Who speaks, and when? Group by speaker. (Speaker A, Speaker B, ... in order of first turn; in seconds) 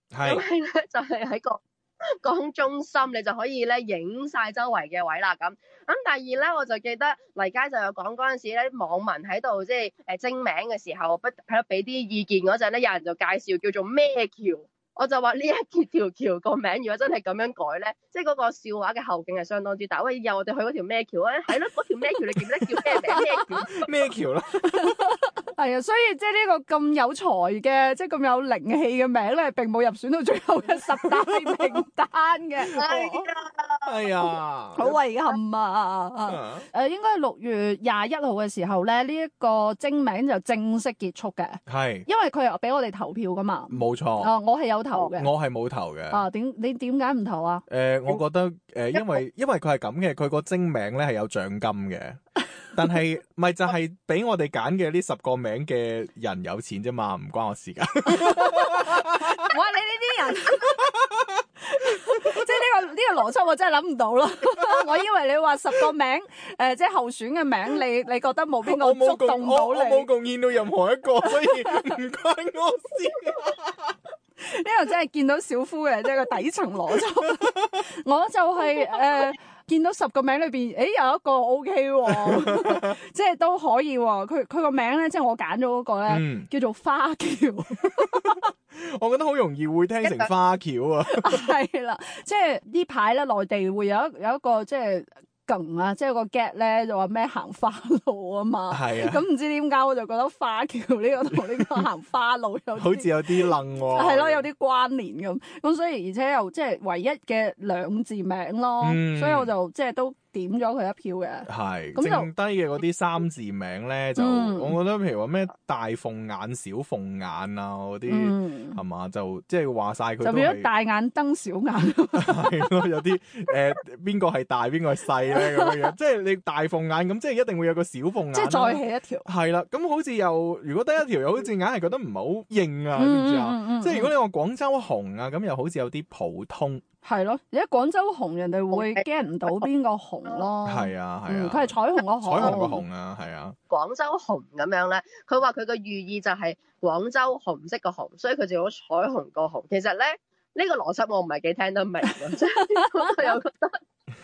Speaker A: 0.1-0.4, 23.6-25.0, 31.0-31.8, 33.8-34.9, 36.3-36.7, 41.7-42.1, 43.7-44.3, 45.2-46.2, 47.7-52.2, 52.7-59.3, 68.7-73.9, 82.2-82.8, 86.1-86.5, 88.7-91.4, 98.7-99.2, 102.8-104.5, 108.8-109.5, 111.5-120.7, 122.1-136.8, 140.6-143.6
Speaker B: 0.2-1.6, 2.2-23.8, 32.8-33.9, 90.0-90.3, 138.7-139.6, 142.4-142.7, 143.7-153.8
Speaker C: 24.7-33.3, 34.7-45.3, 46.1-47.6, 58.4-60.8, 61.7-70.1, 71.4-71.9, 74.4-88.4, 91.1-112.3, 114.2-114.8, 118.1-118.8, 120.2-122.7, 125.3-125.7, 128.3-129.2, 132.9-134.1, 137.0-142.8, 152.8-153.3